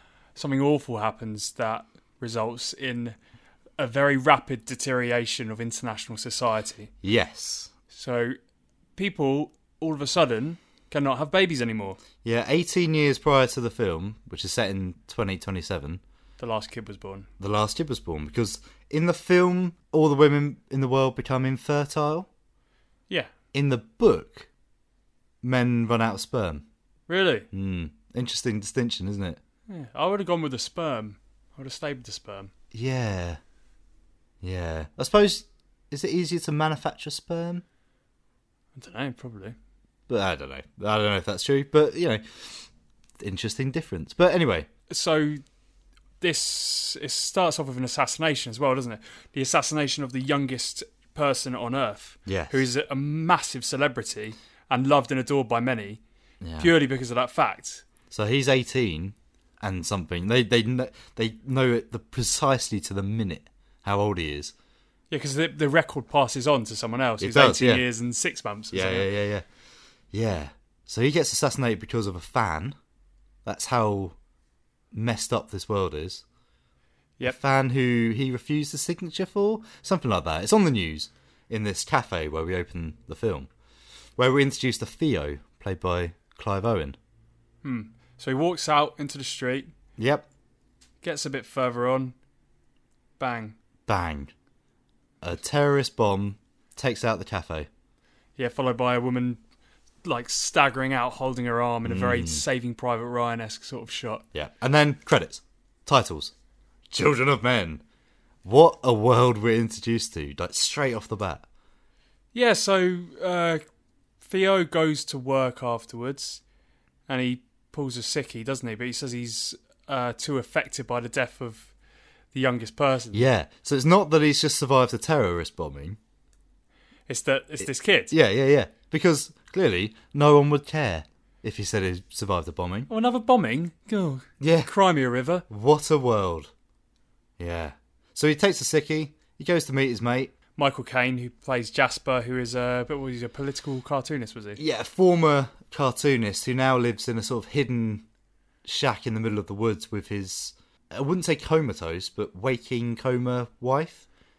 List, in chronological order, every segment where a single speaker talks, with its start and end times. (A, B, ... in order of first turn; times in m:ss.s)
0:00.4-0:03.2 A
0:03.8-0:06.9 A
0:07.0-0:07.7 B
0:07.9-0:08.4 A
0:09.0-0:12.0 A
0:12.2-0:16.0 B
0:16.4-0:17.3 A
0:17.4-0:22.3 B
0:23.5-0:24.5 B
0:25.4-0:26.7 B
0:27.1-0:27.5 A
0:27.5-0:29.4 B
0:29.7-0:32.5 A
0:32.7-0:33.4 B
0:34.4-0:37.6 B
0:38.8-0:39.6 A
0:40.1-0:44.7 B
0:44.9-0:45.4 A
0:46.2-0:56.0 A
0:52.3-0:52.7 B
0:56.4-0:56.7 B
0:56.6-0:57.8 A
0:58.1-1:04.5 B
1:05.1-1:09.1 A
1:07.2-1:07.9 B
1:08.7-1:09.5 B
1:10.1-1:12.8 B
1:13.4-1:14.2 B
1:14.9-1:16.2 B
1:17.2-1:23.5 B
1:24.2-1:27.0 B
1:27.6-1:29.7 A
1:30.0-1:30.3 B
1:31.0-1:32.2 A
1:33.2-1:33.6 A
1:33.9-1:34.3 B
1:35.2-1:37.7 B
1:38.4-1:39.4 A
1:40.0-1:44.2 A
1:41.8-1:42.4 B
1:44.3-1:46.3 B
1:46.9-1:47.8 B
1:48.4-1:51.5 B
1:52.3-1:53.6 A
1:54.2-1:56.4 A
1:57.1-2:01.7 A
2:02.3-2:03.3 A
2:03.1-2:06.0 B
2:07.1-2:08.1 A
2:07.6-2:12.9 B
2:12.9-2:15.5 A
2:14.4-2:14.7 B
2:15.5-2:16.5 B
2:17.4-2:20.3 B
2:20.6-2:24.6 A
2:24.6-2:28.1 B
2:28.6-2:34.1 B